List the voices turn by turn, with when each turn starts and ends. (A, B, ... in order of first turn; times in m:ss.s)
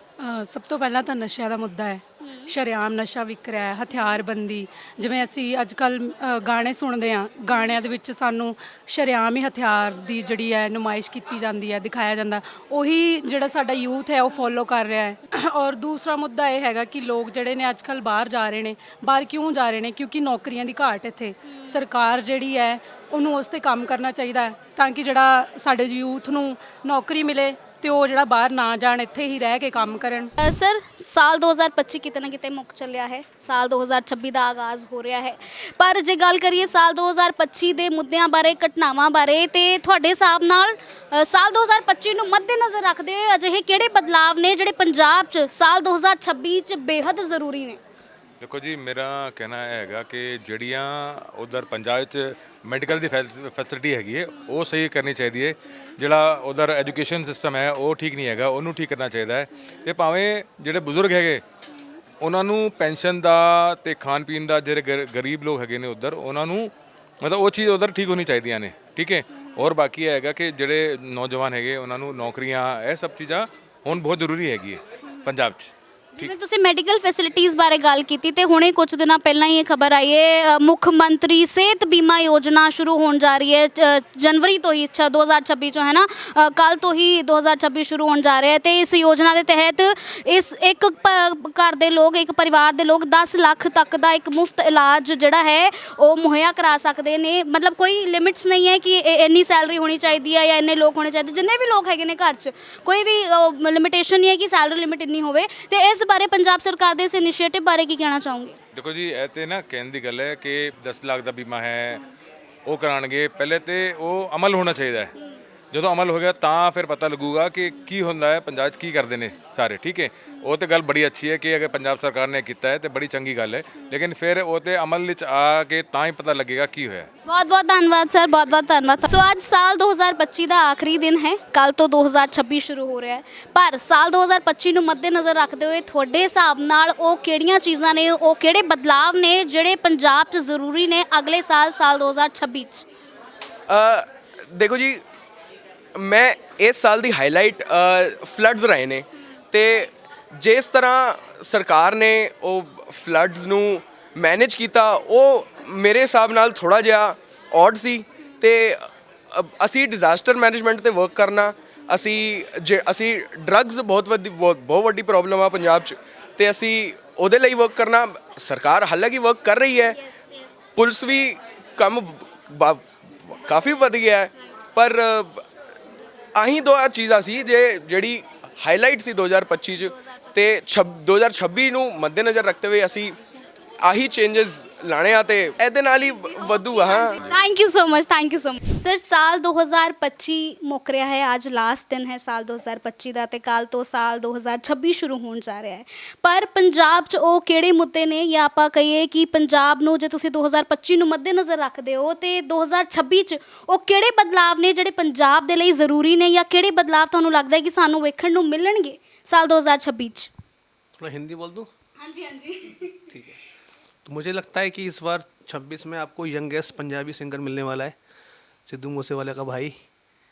0:00.2-0:30.3 A
0:02.2-0:02.5 B
0:03.9-0:04.2 B
0:29.8-0:47.8 B
0:48.4-1:01.4 C
1:02.2-1:16.3 C
1:16.2-1:48.6 B
1:48.7-1:52.0 C
1:52.6-1:55.1 C
1:55.7-2:07.1 C
2:07.2-2:22.8 B
2:23.7-2:24.0 D
2:24.5-2:25.0 D
2:26.0-2:38.8 D
2:39.3-2:50.0 D
2:50.8-2:55.3 D
2:56.4-3:03.1 D
3:03.9-3:06.6 D
3:05.9-3:30.3 B
3:31.0-3:31.7 E
3:32.0-3:33.2 B
3:33.1-3:33.4 E
3:34.0-3:37.9 E
3:38.7-3:39.7 E